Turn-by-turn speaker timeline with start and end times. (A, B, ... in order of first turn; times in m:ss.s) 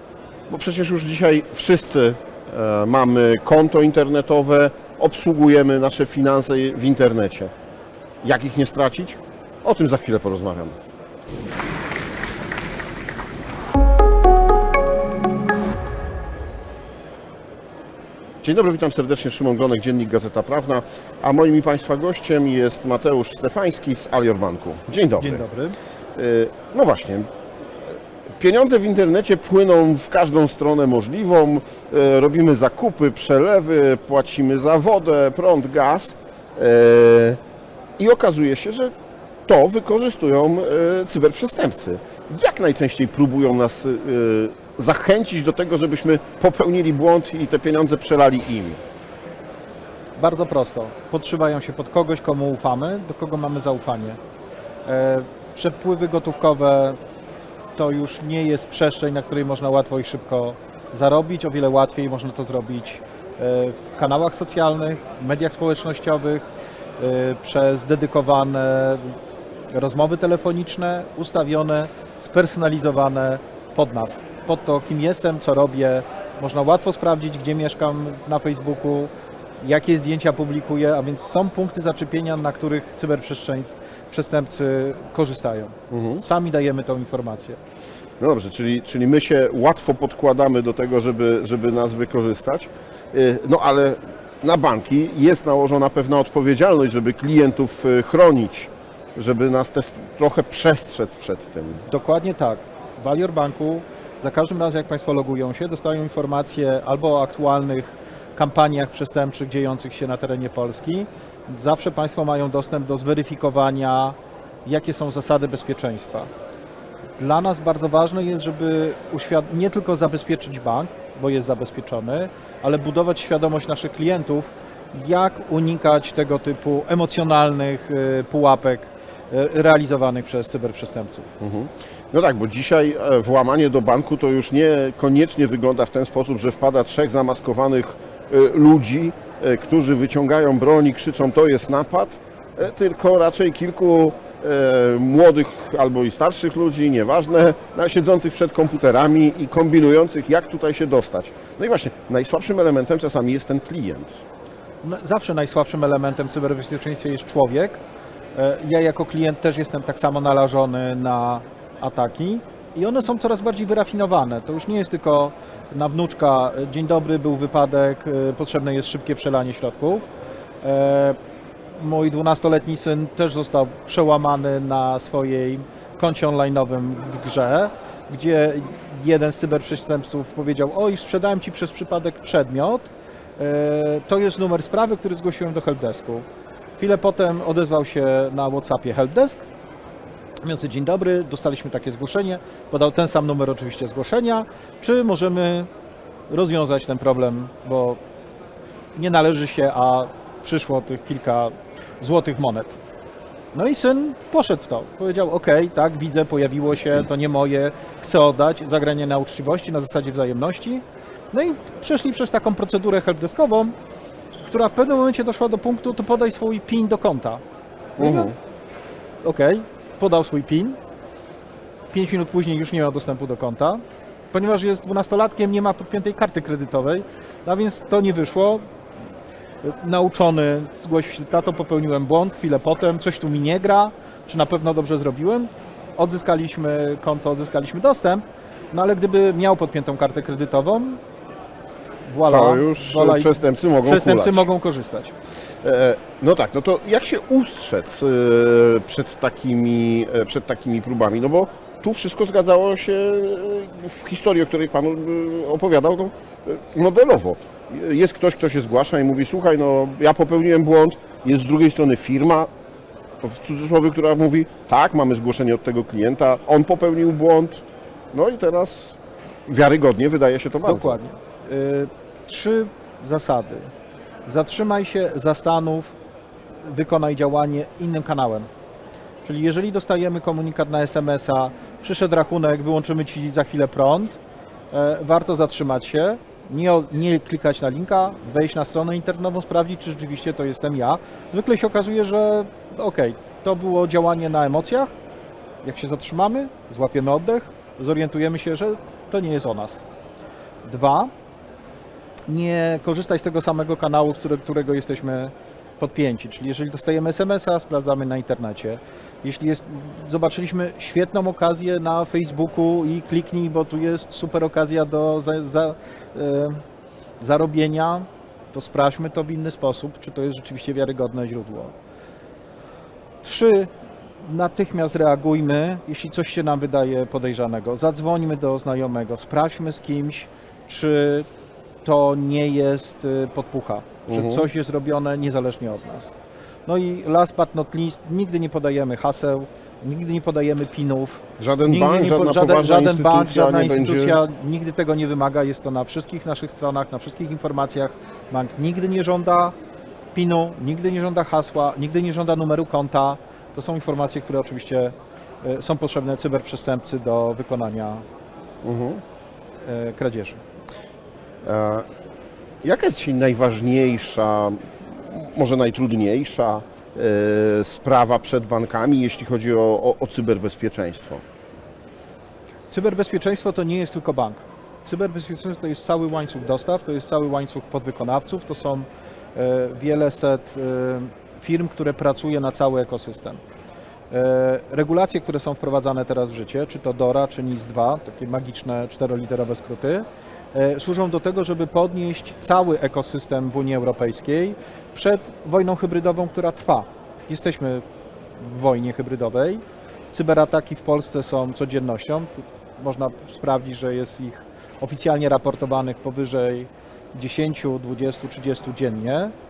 0:00.5-0:07.5 A
0:08.2-0:10.8 A
0:18.4-0:25.4 A
0:25.2-0:25.8 B
0:26.2-0:27.3 A
0:28.4-0:37.4 A
0:38.0-0:38.9 A
0:39.5-0:48.8 A
0:50.2-0:54.2 B
0:54.8-0:57.0 B
0:57.8-1:06.5 B
1:07.0-1:09.2 B
1:09.7-1:27.6 B
1:25.9-1:26.2 A
1:28.2-1:41.8 A
1:41.8-1:56.3 B
1:57.2-2:11.3 B
2:11.4-2:34.2 A
2:34.8-2:37.8 B
2:38.4-2:50.1 B
2:50.6-2:51.2 B
2:51.8-3:06.3 B
3:06.8-3:09.4 B
3:10.4-3:15.7 B
3:16.3-3:18.0 B
3:19.0-3:22.8 B
3:23.5-3:33.8 B
3:34.5-3:37.4 B
3:38.0-3:38.3 B
3:38.0-3:38.4 A
3:39.2-3:40.8 B
3:41.9-3:48.6 B
3:49.6-4:01.0 B
4:02.1-4:05.1 B
4:02.3-4:04.5 A
4:05.6-4:22.5 A
4:23.2-4:31.0 A
4:30.6-4:33.7 B
4:34.3-4:36.0 B
4:36.6-4:38.5 B
4:39.2-4:44.2 B
4:44.7-4:54.9 B
4:55.6-4:59.8 B
5:00.6-5:01.1 B
5:02.3-5:16.6 B
5:17.2-5:21.7 B
5:23.2-5:23.7 B
5:24.2-5:31.3 B
5:31.8-5:36.1 B
5:34.1-5:34.5 A
5:36.7-5:49.5 B
5:41.4-5:44.2 A
5:50.1-5:58.0 B
5:58.6-5:59.0 A
5:59.6-6:00.4 B
6:01.4-6:01.9 A
6:02.6-6:11.2 A
6:12.7-6:23.4 B
6:24.1-6:37.8 B
6:38.4-6:49.3 B